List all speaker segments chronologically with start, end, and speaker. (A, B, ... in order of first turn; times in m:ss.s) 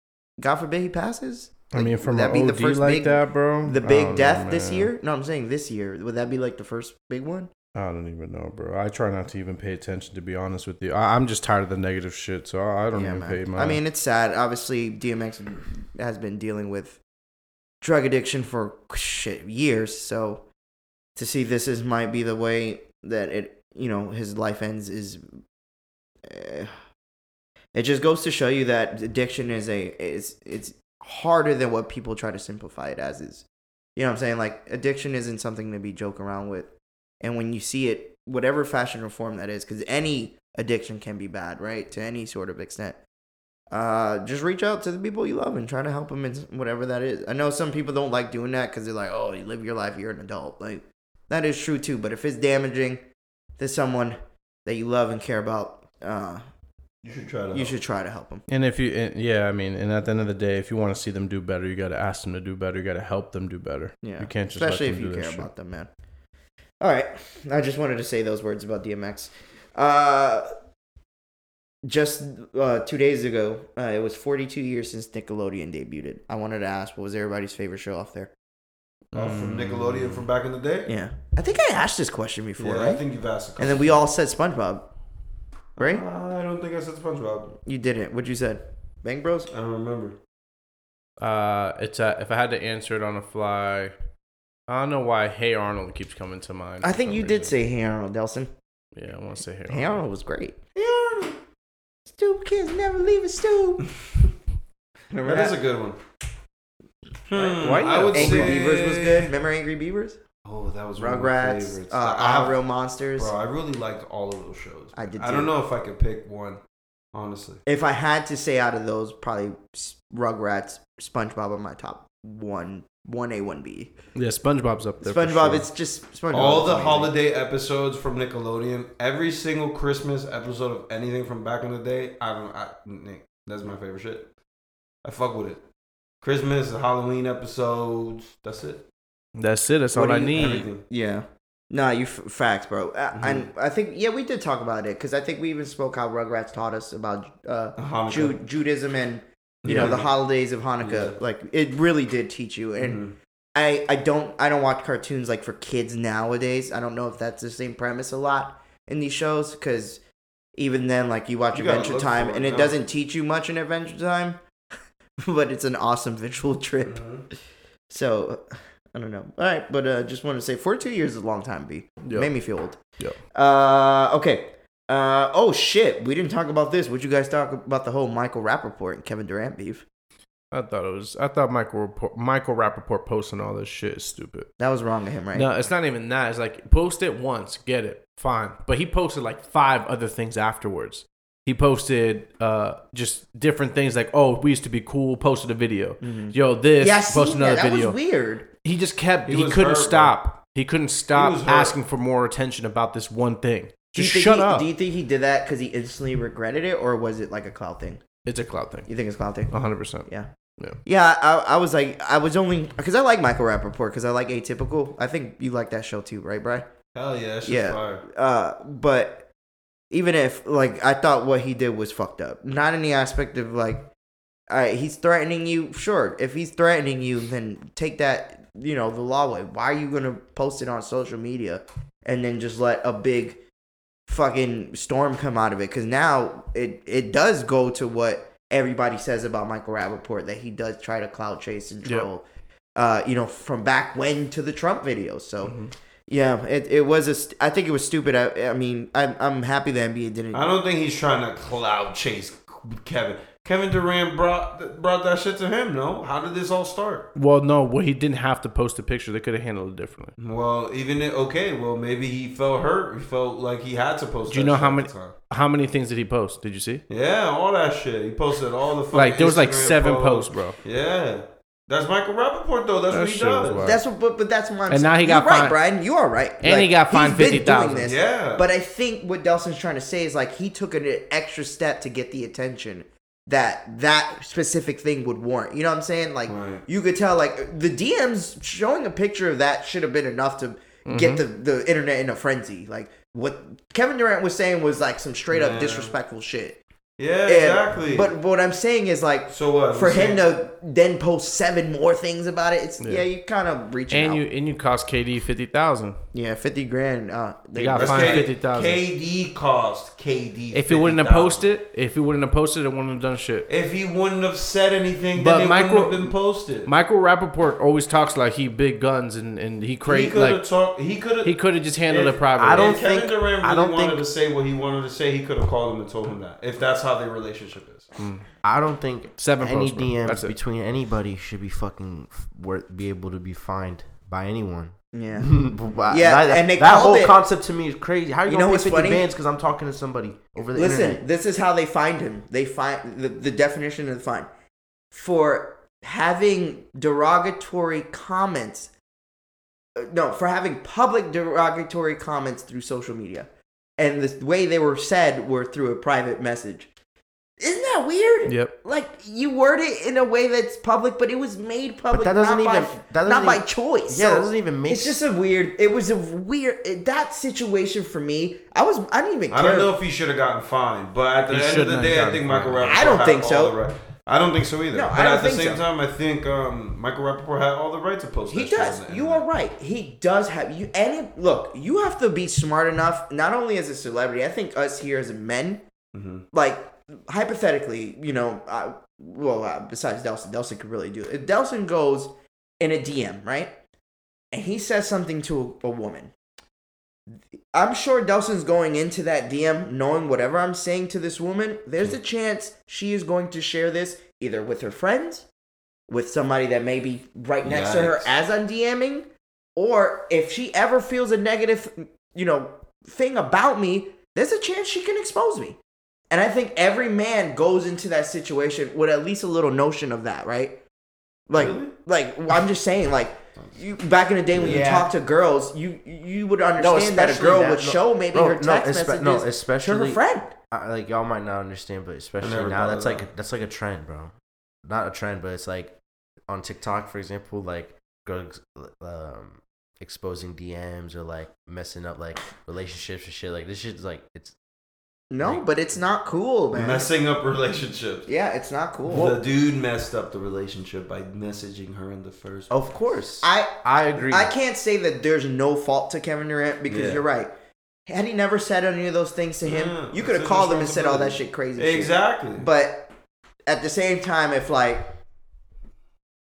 0:00.4-0:07.5 A
0:01.7-0:04.9 B
0:07.7-0:13.8 B
0:12.9-0:17.0 A
0:17.8-0:20.4 A
0:21.2-0:25.2 A
0:26.2-0:26.7 A
0:27.7-0:43.0 A
0:43.7-0:53.0 A
0:53.6-0:56.4 A
0:57.0-0:57.8 C
0:57.5-0:58.4 A
0:58.5-1:05.5 B
1:04.0-1:05.9 A
1:06.8-1:10.5 A
1:11.8-1:18.3 A
1:19.1-1:20.2 B
1:19.1-1:20.9 C
1:20.8-1:23.0 A
1:22.6-1:24.0 C
1:23.6-1:24.9 A
1:25.8-1:26.0 A
1:25.8-1:27.6 C
1:27.6-1:29.5 A
1:29.5-1:30.2 C
1:31.2-1:33.9 B
1:34.7-1:37.5 B
1:36.8-1:38.5 A
1:39.0-1:40.0 B
1:39.7-1:41.4 A
1:42.0-1:43.9 A
1:45.1-1:46.0 C
1:45.1-1:45.5 A
1:47.3-1:49.3 C
1:47.3-1:50.2 A
1:47.6-1:48.6 B
1:50.4-1:52.6 C
1:51.0-1:53.3 A
1:53.2-1:56.6 C
1:54.9-1:55.5 A
1:57.1-1:57.6 C
1:57.6-2:03.9 A
2:04.1-2:05.6 B
2:05.0-2:07.1 A
2:06.3-2:14.3 C
2:15.0-2:15.6 C
2:16.2-2:18.8 C
2:19.3-2:20.6 B
2:19.9-2:33.0 A
2:20.3-2:20.8 C
2:23.1-2:23.5 C
2:27.8-2:28.4 C
2:29.6-2:30.1 C
2:29.6-2:30.0 B
2:30.8-2:31.2 C
2:32.8-2:33.1 C
2:33.5-2:40.0 A
2:40.5-2:44.4 A
2:41.5-2:42.7 C
2:45.2-2:47.0 A
2:46.8-2:47.2 C
2:47.9-2:52.8 A
2:52.0-2:52.3 B
2:53.3-2:59.8 A
3:00.5-3:04.5 B
3:04.6-3:05.5 A
3:05.3-3:18.0 B
3:16.0-3:18.5 A
3:18.6-3:24.7 B
3:19.2-3:20.2 C
3:21.1-3:21.8 C
3:23.9-3:28.0 A
3:28.2-3:28.9 B
3:28.9-3:30.3 A
3:29.5-3:30.8 B
3:30.8-3:36.7 A
3:36.9-3:38.0 C
3:37.4-3:39.3 A
3:39.9-3:43.9 A
3:44.5-3:53.4 A
3:54.1-4:02.2 A
4:02.8-4:05.5 A
4:05.4-4:05.7 B
4:06.1-4:10.4 A
4:10.3-4:17.1 C
4:17.1-4:20.1 B
4:20.2-4:25.2 C
4:24.3-4:26.8 B
4:26.9-4:33.6 C
4:28.9-4:30.6 B
4:32.9-4:33.8 B
4:33.6-4:56.6 A
4:34.7-4:35.6 B
4:36.4-4:37.9 B
4:37.8-4:38.4 C
4:46.3-4:46.6 C
4:50.8-4:51.2 B
4:55.3-4:55.9 C
4:57.0-4:58.1 C
4:57.2-5:04.2 A
4:59.3-5:00.2 C
5:02.8-5:03.1 B
5:03.9-5:06.0 B
5:06.1-5:08.3 A
5:07.5-5:08.8 B
5:07.7-5:11.4 C
5:10.5-5:13.5 B
5:13.5-5:16.7 C
5:15.2-5:20.4 B
5:19.8-5:27.9 C
5:21.2-5:22.8 B
5:22.4-5:24.0 D
5:28.0-5:28.3 B
5:28.4-5:41.0 D
5:29.2-5:30.3 B
5:34.9-5:35.3 A
5:35.9-5:37.2 A
5:38.3-5:39.1 A
5:40.4-5:44.3 A
5:44.9-5:48.7 A
5:49.8-5:56.7 A
5:57.4-6:09.7 A
5:58.3-5:58.5 B
6:01.9-6:05.0 D
6:09.3-6:19.2 C
6:11.3-6:12.8 B
6:12.6-6:13.5 A
6:14.7-6:15.6 A
6:18.3-6:25.6 A
6:25.9-6:26.2 C
6:26.3-6:33.5 A
6:34.3-6:36.1 A
6:37.4-6:45.3 A
6:45.9-6:55.6 A
6:47.4-6:48.1 C
6:56.1-7:00.6 A
7:01.3-7:10.3 A
7:01.3-7:01.7 C
7:04.3-7:04.9 D
7:04.4-7:04.7 C
7:06.6-7:24.4 D
7:12.2-7:13.1 C
7:25.1-7:26.9 A
7:26.5-7:28.1 C
7:28.0-7:29.1 A
7:28.8-7:32.5 C
7:32.5-7:34.3 D
7:33.2-7:37.3 A
7:36.7-7:37.0 C
7:37.9-7:42.9 A
7:39.4-7:42.5 C
7:43.4-7:44.9 A